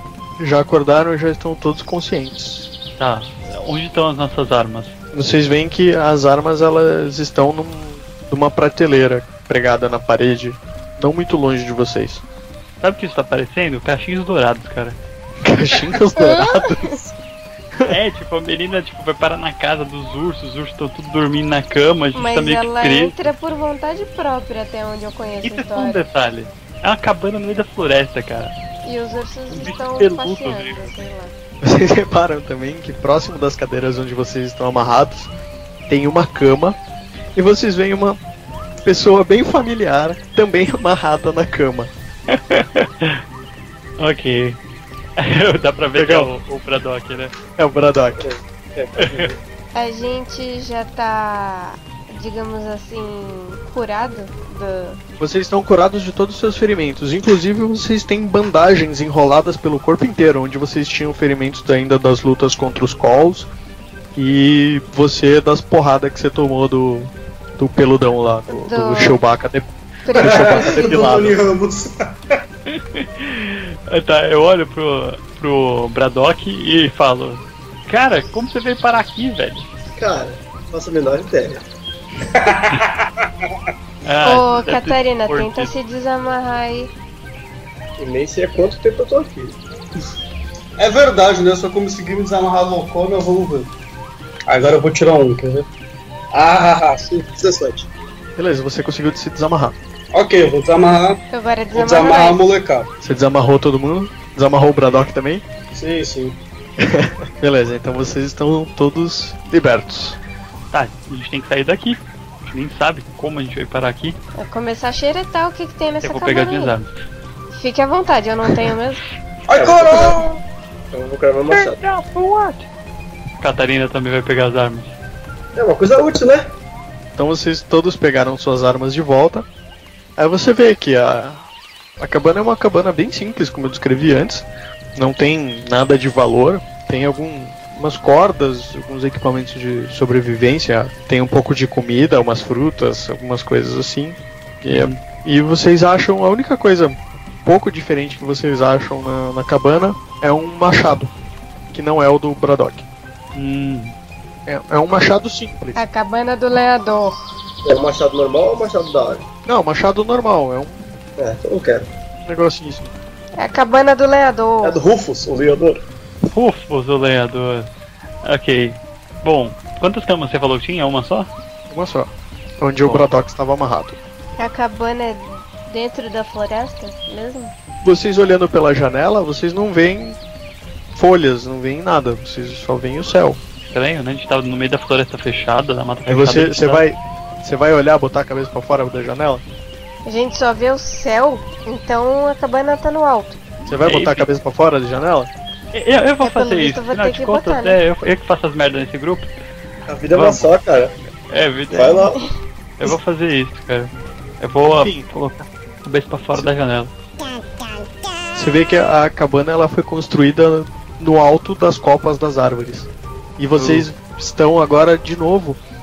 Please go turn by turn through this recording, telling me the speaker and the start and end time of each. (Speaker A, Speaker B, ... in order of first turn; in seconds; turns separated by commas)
Speaker A: 0.4-2.7, Speaker B: 3.0-5.0, Speaker A: 5.1-12.2, Speaker B: 12.8-15.0, Speaker A: 15.4-17.1, Speaker C: 16.2-16.6, Speaker B: 17.9-23.2, Speaker C: 22.1-26.0, Speaker B: 25.4-28.5, Speaker C: 28.8-31.3, Speaker B: 29.5-30.9, Speaker A: 31.6-35.3, Speaker A: 35.9-36.8, Speaker A: 37.4-38.2, Speaker A: 38.8-41.9, Speaker B: 42.3-43.2, Speaker B: 44.0-44.6, Speaker B: 45.2-47.4, Speaker A: 46.0-46.3, Speaker A: 47.6-48.2, Speaker D: 48.2-49.4, Speaker B: 49.0-49.3, Speaker C: 49.8-55.0, Speaker A: 55.2-63.5, Speaker A: 64.2-71.4, Speaker C: 68.5-69.2, Speaker C: 70.0-71.0, Speaker E: 70.2-72.1, Speaker B: 72.7-79.7, Speaker D: 80.0-81.7, Speaker E: 82.3-83.3, Speaker B: 84.0-85.7, Speaker C: 84.2-86.9, Speaker D: 88.0-89.6, Speaker E: 90.8-93.7, Speaker E: 94.5-95.7, Speaker E: 96.3-97.9, Speaker A: 98.4-99.8, Speaker E: 100.1-101.2, Speaker C: 101.3-102.5, Speaker E: 101.7-102.9, Speaker A: 103.0-105.4, Speaker E: 105.7-106.4, Speaker A: 106.8-110.2, Speaker B: 110.7-114.2, Speaker C: 114.4-116.7, Speaker B: 116.0-116.9, Speaker C: 117.5-119.0, Speaker E: 119.5-120.4, Speaker D: 119.5-120.2, Speaker D: 120.9-121.8, Speaker B: 121.5-122.7, Speaker B: 123.4-125.0, Speaker D: 125.6-126.5, Speaker A: 127.2-129.5, Speaker A: 130.2-131.5, Speaker A: 132.0-151.1, Speaker B: 144.7-145.0, Speaker A: 151.7-152.9, Speaker B: 153.3-153.9, Speaker A: 154.5-155.8, Speaker C: 155.8-157.2, Speaker D: 157.7-159.3, Speaker A: 159.5-160.8, Speaker D: 161.2-161.9, Speaker A: 162.3-162.9, Speaker C: 163.4-164.8, Speaker D: 164.6-165.8, Speaker B: 166.3-167.7, Speaker B: 168.2-171.3, Speaker A: 171.7-174.0, Speaker B: 172.8-173.1, Speaker C: 174.4-177.5, Speaker A: 177.8-180.2, Speaker A: 180.9-183.4, Speaker B: 183.7-186.8, Speaker A: 186.1-189.4, Speaker C: 190.1-193.4, Speaker B: 193.7-194.3, Speaker A: 193.7-195.3, Speaker B: 195.7-199.3, Speaker C: 196.2-197.8, Speaker D: 199.9-200.9, Speaker B: 200.1-200.5, Speaker B: 201.3-202.1, Speaker D: 201.7-202.2, Speaker B: 202.8-206.9, Speaker A: 204.7-205.1, Speaker A: 208.3-215.6, Speaker B: 213.6-213.9